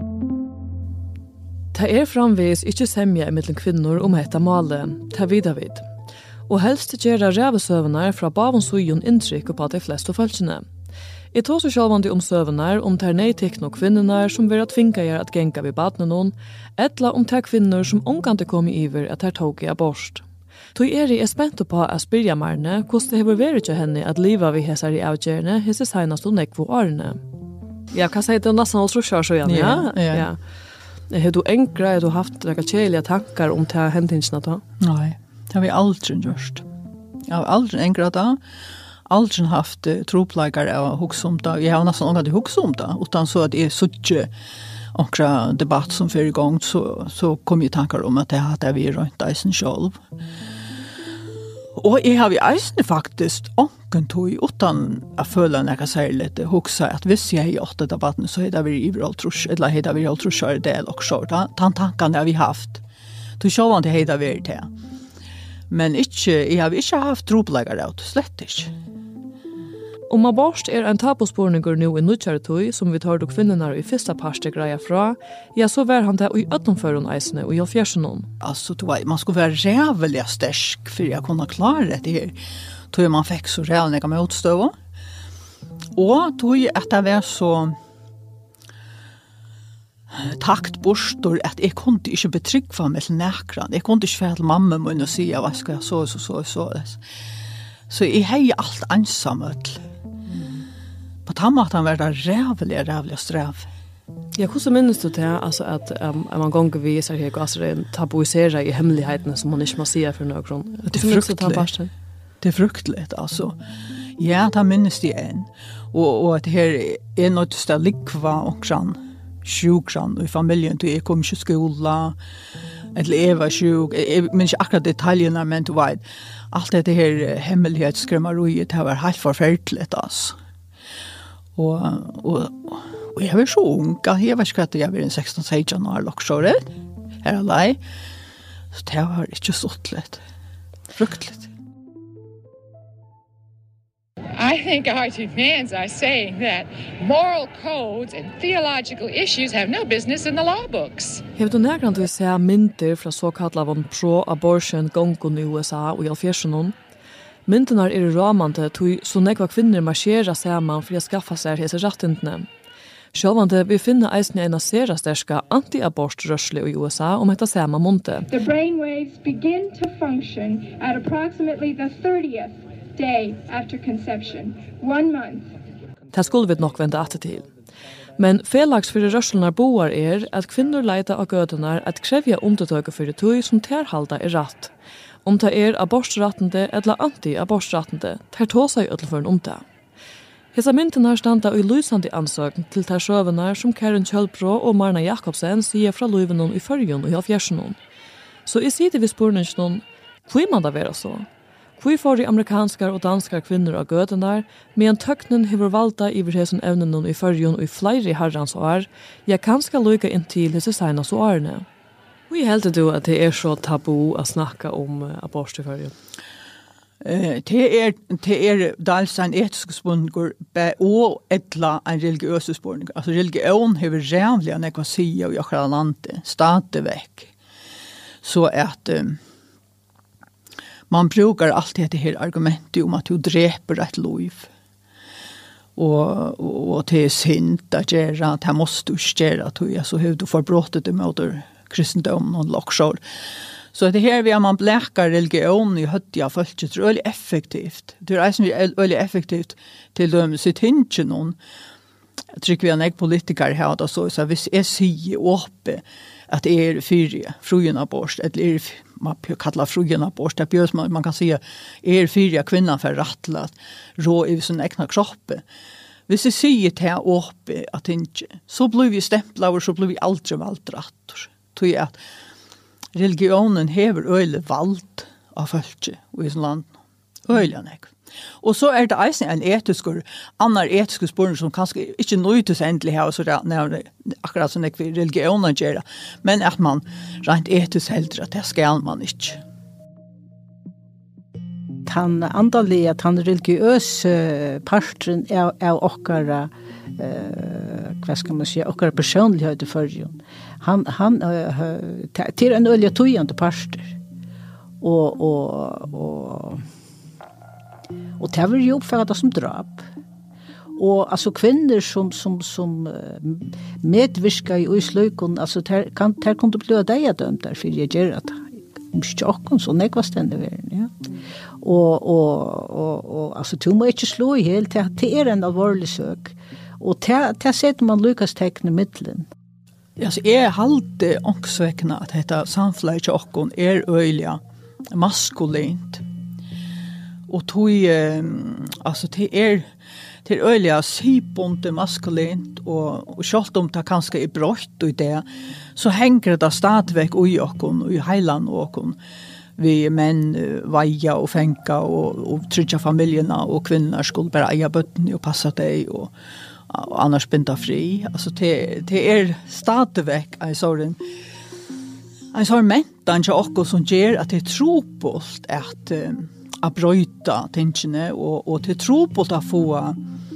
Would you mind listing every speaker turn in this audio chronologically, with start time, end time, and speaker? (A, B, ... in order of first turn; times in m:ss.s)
0:01.7-0:05.8 A
0:06.5-0:10.6 A
0:11.3-0:20.2 A
0:20.7-0:27.2 A
0:27.9-0:30.4 A
0:29.4-0:30.2 B
0:31.1-0:34.6 A
0:34.8-0:36.6 B
0:37.3-0:38.4 B
0:39.1-0:44.3 B
0:44.9-0:50.0 B
0:51.8-1:02.8 B
1:03.4-1:04.7 B
1:05.7-1:08.7 B
1:10.1-1:18.3 A
1:18.4-1:22.3 B
1:22.9-1:24.7 B
1:26.0-1:27.8 B
1:30.1-1:37.0 B
1:37.9-1:39.8 B
1:41.2-1:43.7 B
1:44.4-1:51.9 A
1:50.9-1:51.7 B
1:52.4-1:53.6 B
1:54.2-2:02.2 B
2:02.9-2:10.4 B
2:11.6-2:16.6 B
2:17.2-2:17.8 B
2:18.7-2:20.2 B
2:21.0-2:21.5 B
2:24.4-2:31.2 C
2:31.4-2:36.7 A
2:37.5-2:42.5 A
2:43.1-2:48.2 A
2:48.3-2:55.5 D
2:56.1-2:57.5 A
2:58.2-3:04.7 A
3:05.2-3:09.6 A
3:10.5-3:17.8 A
3:18.4-3:21.3 A
3:21.8-3:31.6 A
3:32.3-3:35.9 A
3:37.0-3:47.3 B
3:48.2-3:49.2 B
3:50.9-3:54.5 B
3:55.8-4:03.0 B
4:03.7-4:11.4 B
4:12.4-4:25.4 B
4:26.1-4:32.0 B
4:32.9-4:36.7 B
4:37.3-4:49.4 B
4:51.8-5:04.0 E
5:04.8-5:06.6 E
5:08.2-5:09.8 E
5:10.8-5:20.9 E
5:21.6-5:29.3 E
5:30.0-5:34.4 B
5:34.9-5:36.0 B
5:37.3-5:39.6 B
5:40.2-5:45.2 B
5:45.8-5:49.0 B
5:49.6-5:56.1 B
5:56.7-6:01.0 B
6:02.3-6:10.0 B